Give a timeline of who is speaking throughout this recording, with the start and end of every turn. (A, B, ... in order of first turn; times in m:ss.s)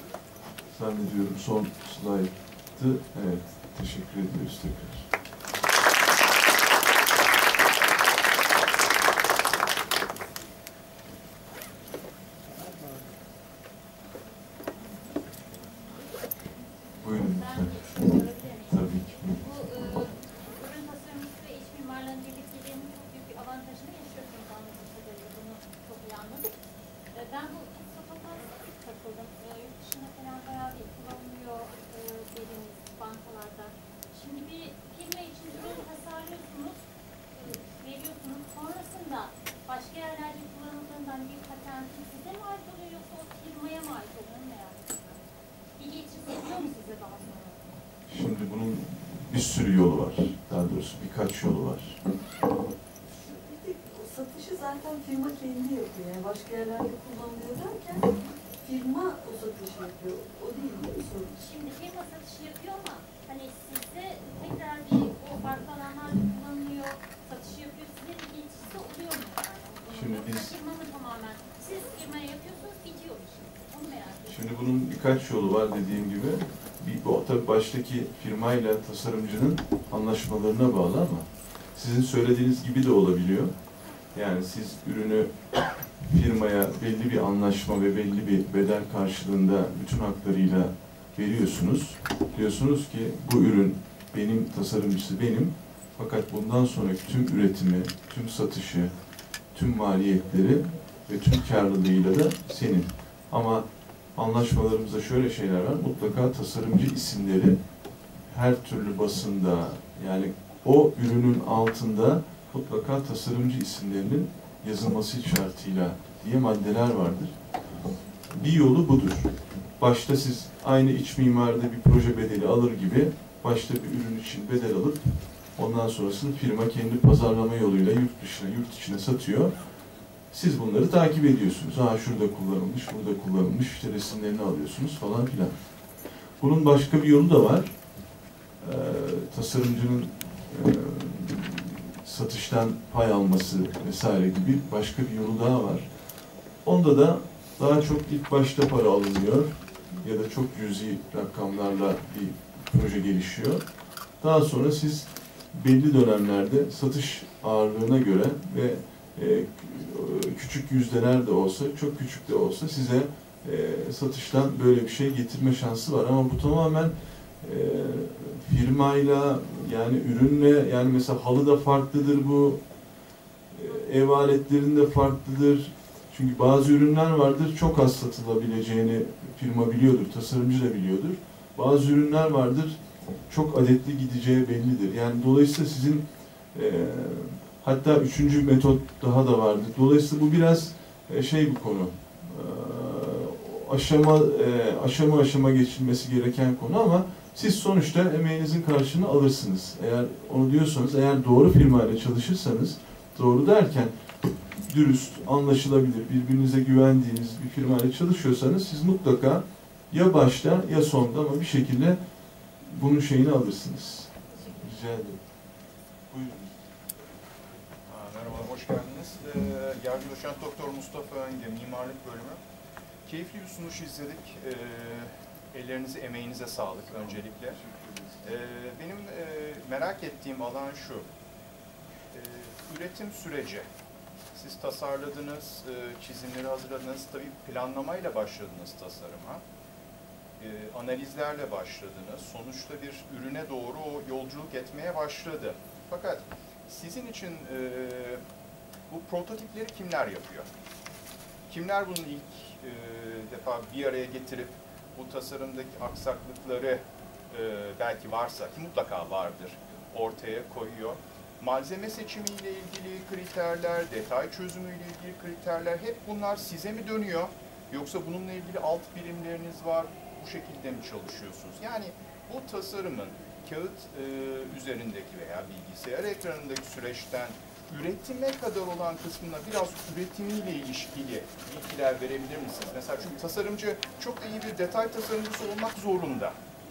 0:00.7-0:05.1 A
0:17.0-0:18.0 A
0:17.0-0:26.5 B
0:18.7-0:19.4 A
0:27.1-0:36.8 B
0:37.3-0:47.8 B
0:48.1-0:52.0 A
0:53.2-0:58.1 C
0:58.6-1:01.4 C
1:01.3-1:14.6 B
1:09.9-1:10.5 A
1:14.3-1:23.5 A
1:24.1-1:25.3 A
1:26.0-1:38.9 A
1:39.5-1:43.6 A
1:44.2-1:47.6 A
1:48.3-1:57.4 A
1:58.3-2:09.5 A
2:10.3-2:15.5 A
2:16.4-2:17.7 A
2:18.6-2:25.9 A
2:26.6-2:33.6 A
2:34.2-2:52.6 A
2:53.5-3:02.8 A
3:03.3-3:23.9 A
3:24.7-3:32.0 A
3:32.7-3:35.2 A
3:36.1-3:36.5 A
3:37.9-3:42.4 D
3:43.1-3:47.6 D
3:47.0-3:48.3 A
3:48.2-3:51.1 D
3:52.1-3:53.7 D
3:54.3-3:59.4 D
4:00.4-4:08.2 D
4:08.9-4:10.5 D
4:11.5-4:46.4 D